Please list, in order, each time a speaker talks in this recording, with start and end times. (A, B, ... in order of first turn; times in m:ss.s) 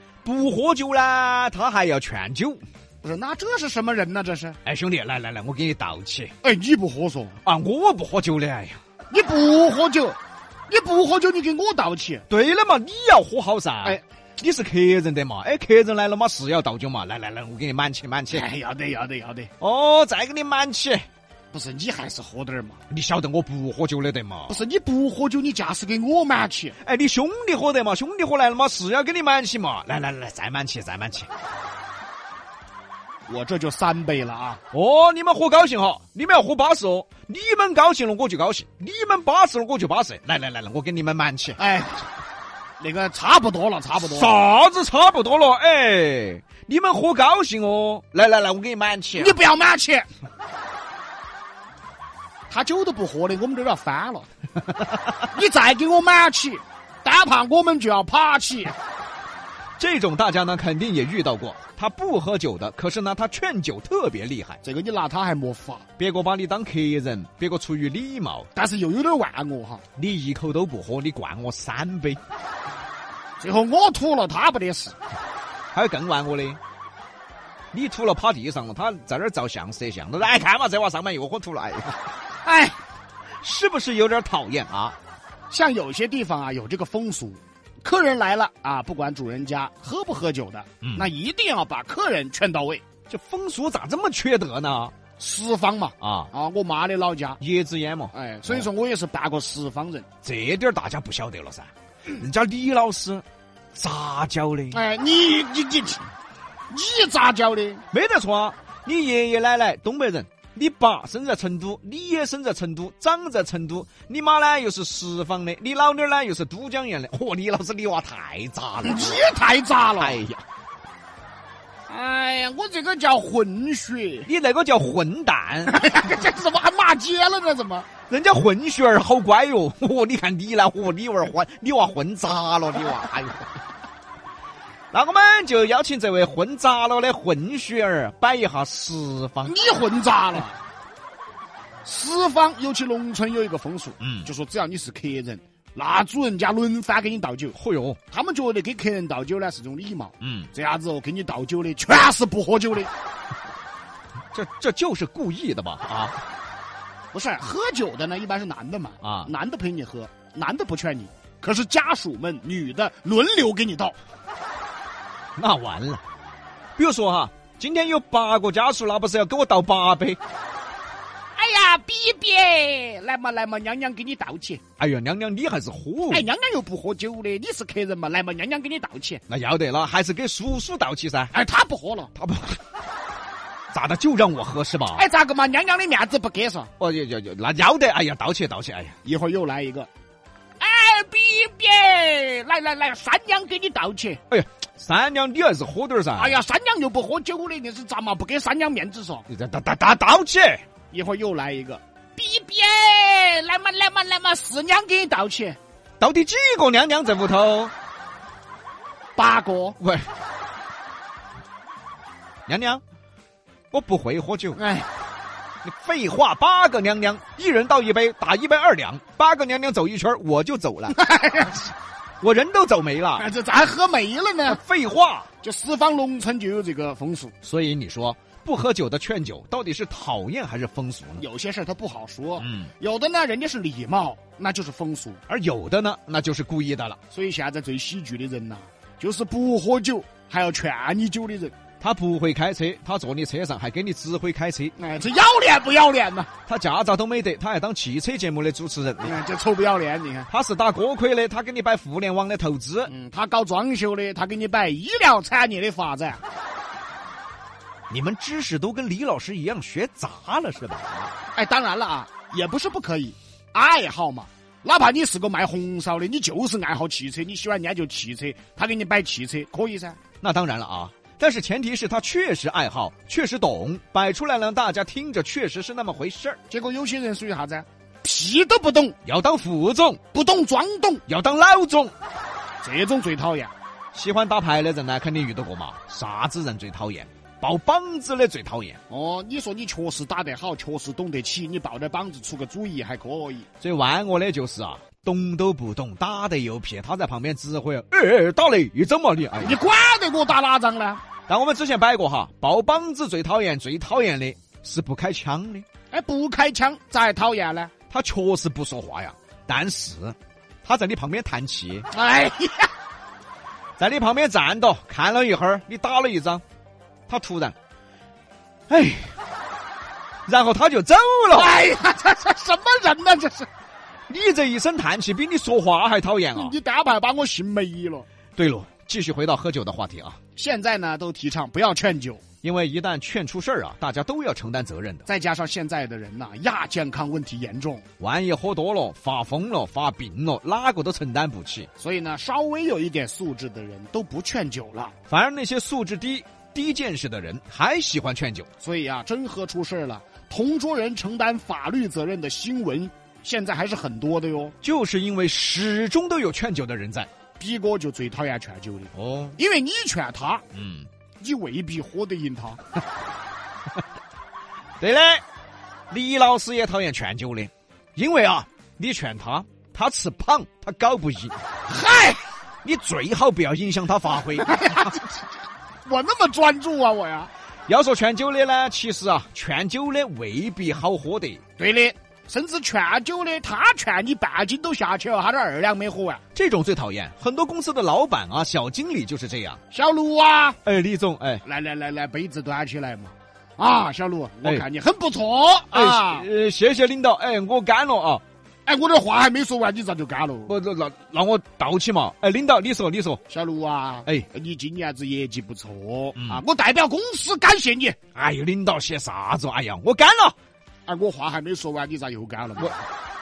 0:00.2-0:02.6 A
0:03.0-0:04.6 B
0:04.6-0:06.3 A
0:06.4-0:07.4 B
0:07.4-0:08.8 A
0:09.1-0:10.2 B
0:10.7-0:12.2 B
0:12.3-0:18.4 A
0:18.3-0:19.5 B
0:19.6-0:21.0 A
0:21.5-0:22.8 B
0:22.9-0:24.6 A
0:24.5-0:26.8 B
0:26.8-0:31.3 A
0:33.3-0:34.6 B
0:34.7-0:41.6 A
0:41.6-0:42.0 B
0:42.8-0:44.3 B
0:44.0-0:49.4 A
0:49.2-0:50.1 B
0:52.5-0:54.3 B
0:55.2-0:58.7 B
0:59.8-1:04.6 A
1:04.6-1:05.8 B
1:06.0-1:08.5 A
1:08.5-1:09.8 B
1:10.0-1:12.2 A
1:13.4-1:15.0 B
1:15.7-1:16.6 A
1:17.7-1:22.0 A
1:22.4-1:22.8 B
1:23.4-1:25.0 A
1:25.5-1:32.8 B
1:30.8-1:31.1 A
1:33.1-1:34.9 A
1:35.2-1:37.4 B
1:36.0-1:36.3 A
1:37.4-1:38.6 A
1:38.1-1:40.1 B
1:40.2-1:44.8 A
1:44.7-1:46.1 B
1:46.7-1:47.8 B
1:47.9-1:59.3 A
1:58.8-2:00.2 B
2:00.0-2:00.4 A
2:01.9-2:04.3 B
2:04.2-2:05.7 A
2:05.7-2:07.9 B
2:08.1-2:13.5 A
2:14.9-2:19.5 A
2:19.4-2:20.6 B
2:21.8-2:27.6 B
2:24.0-2:24.3 A
2:27.5-2:28.0 A
2:28.1-2:32.9 B
2:30.2-2:30.5 A
2:34.3-2:36.2 A
2:37.1-2:44.0 B
2:39.0-2:39.3 A
2:45.4-2:46.0 A
2:46.8-2:50.2 A
2:51.4-2:54.6 B
2:54.8-2:56.2 A
2:56.1-2:59.2 B
2:59.3-3:01.3 A
3:01.3-3:02.1 B
3:02.1-3:02.6 A
3:03.7-3:05.0 A
3:04.9-3:06.7 B
3:06.8-3:09.0 A
3:09.0-3:09.9 B
3:10.6-3:14.2 B
3:14.3-3:16.4 A
3:16.2-3:19.2 B
3:19.3-3:20.6 A
3:20.9-3:25.6 B
3:26.0-3:27.7 A
3:29.2-3:29.8 B
3:29.8-3:30.1 A
3:32.5-3:32.8 A
3:33.7-3:34.6 A
3:34.6-3:34.9 B
3:35.6-3:41.0 A
3:40.9-3:41.7 B
3:42.2-3:43.3 A
3:43.2-3:44.6 B
3:44.5-3:45.3 A
3:45.4-3:47.3 B
3:47.4-3:51.2 A
3:51.2-3:55.2 B
3:52.4-3:52.7 A
3:55.3-3:57.0 A
3:57.1-4:01.5 B
4:01.8-4:04.7 A
4:04.8-4:06.3 B
4:06.5-4:09.2 A
4:09.0-4:10.3 B
4:10.3-4:12.9 A
4:12.9-4:16.2 B
4:17.9-4:21.1 A
4:21.3-4:30.0 B
4:30.2-4:36.4 A
4:36.5-4:39.0 B
4:39.0-4:40.0 A
4:40.1-4:41.0 B
4:41.1-4:41.9 A
4:42.6-4:43.5 B
4:43.9-4:48.8 A
4:48.9-4:53.5 B
4:53.6-4:59.6 A
4:59.4-5:01.0 B
5:01.3-5:05.6 A
5:05.9-5:07.7 B
5:07.9-5:11.9 A
5:11.9-5:12.7 B
5:13.8-5:16.4 A
5:17.1-5:17.6 A
5:18.7-5:19.2 A
5:20.3-5:21.6 A
5:21.3-5:23.5 B
5:24.1-5:26.5 A
5:26.3-5:28.1 B
5:28.4-5:30.2 A
5:30.4-5:32.2 B
5:32.4-5:35.0 A
5:35.0-5:37.8 B
5:38.0-5:41.7 A
5:41.8-5:44.9 B
5:45.1-5:48.5 A
5:48.6-5:54.5 B
5:54.6-5:57.1 A
5:57.4-6:00.4 B
5:58.9-5:59.4 A
6:00.5-6:00.9 A
6:01.2-6:02.6 B
6:04.8-6:05.2 A
6:05.9-6:11.4 A
6:11.7-6:12.2 B
6:12.6-6:14.9 A
6:14.4-6:15.2 B
6:15.8-6:17.3 B
6:17.7-6:21.4 A
6:21.6-6:26.2 B
6:26.3-6:29.6 A
6:29.7-6:30.6 B
6:30.6-6:31.4 A
6:31.4-6:36.3 B
6:35.7-6:38.2 A
6:38.6-6:40.5 B
6:40.5-6:43.2 A
6:43.3-6:48.0 B
6:48.1-6:50.4 A
6:50.9-6:52.8 B